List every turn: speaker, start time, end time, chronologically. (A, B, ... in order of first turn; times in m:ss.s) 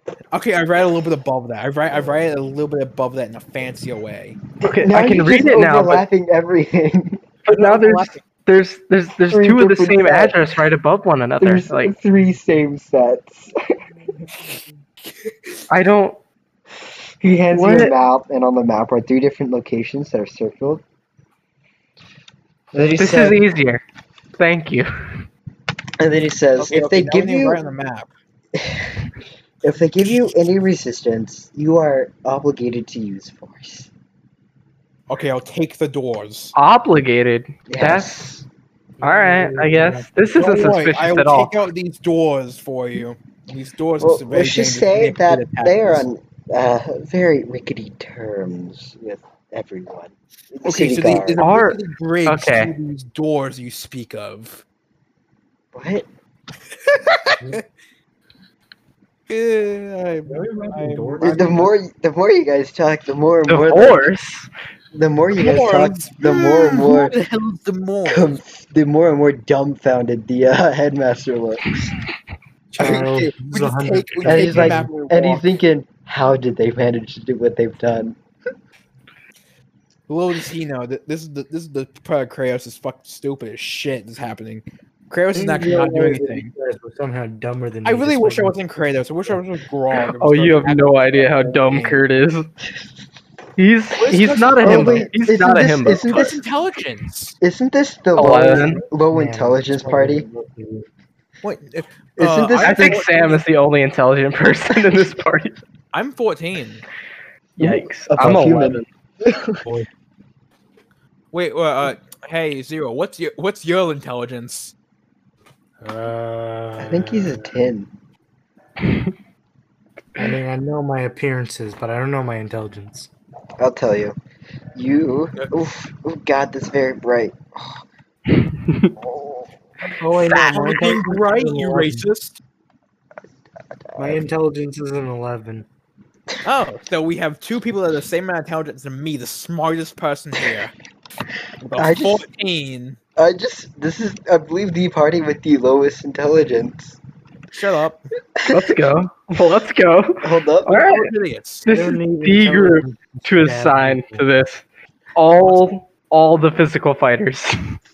0:00.3-0:04.4 A
0:04.6-0:07.2 B
0:04.6-0:06.0 C
0:07.5-0:11.9 C
0:07.5-0:08.2 A
0:09.3-0:10.4 B
0:11.4-0:13.5 B
0:15.7-0:16.2 C
0:17.2-0:20.8 B
0:17.5-0:17.9 C
0:22.7-0:23.4 B
0:23.0-0:23.8 C
0:24.4-0:24.9 C
0:26.0-0:27.6 B
0:26.6-0:28.1 A
0:28.6-0:29.1 B
0:29.6-0:33.9 B
0:35.1-0:36.5 A
0:36.6-0:38.2 C
0:37.7-0:38.5 B
0:39.0-0:40.1 D
0:39.0-0:41.5 C
0:40.4-0:46.1 A
0:44.0-0:51.4 B
0:50.6-0:54.6 A
0:51.4-0:52.7 C
0:55.7-0:56.1 B
0:59.3-1:01.6 A
1:00.3-1:01.7 D
1:01.2-1:04.1 B
1:03.5-1:04.5 C
1:04.9-1:07.2 B
1:05.4-1:08.4 A
1:08.1-1:11.9 B
1:12.7-1:14.9 D
1:12.8-1:15.4 A
1:14.2-1:18.2 B
1:20.1-1:26.5 A
1:25.3-1:28.6 D
1:27.8-1:32.0 A
1:30.2-1:32.5 C
1:33.6-1:36.4 C
1:34.0-1:35.1 A
1:34.6-1:36.4 B
1:36.0-1:37.4 A
1:37.4-1:40.3 B
1:38.2-1:38.8 C
1:38.2-1:40.9 D
1:41.4-1:43.4 A
1:42.2-1:43.0 B
1:42.6-1:45.6 C
1:45.9-1:46.8 A
1:47.6-1:48.9 C
1:47.6-1:49.6 B
1:51.3-1:54.8 A
1:55.8-1:57.5 D
1:56.8-1:57.9 B
1:58.8-1:59.1 C
2:00.2-2:03.1 D
2:03.6-2:04.2 B
2:04.8-2:07.8 B
2:08.4-2:08.9 C
2:09.0-2:09.5 B
2:10.0-2:12.1 D
2:10.1-2:12.4 A
2:13.9-2:14.2 B
2:14.0-2:15.7 D
2:16.4-2:20.7 A
2:21.6-2:23.0 A
2:21.8-2:22.2 B
2:23.2-2:27.0 B
2:27.5-2:28.0 A
2:28.4-2:28.7 B
2:28.5-2:31.1 C
2:30.2-2:30.8 B
2:30.7-2:31.7 A
2:31.6-2:37.5 C
2:31.7-2:34.3 D
2:35.3-2:35.7 A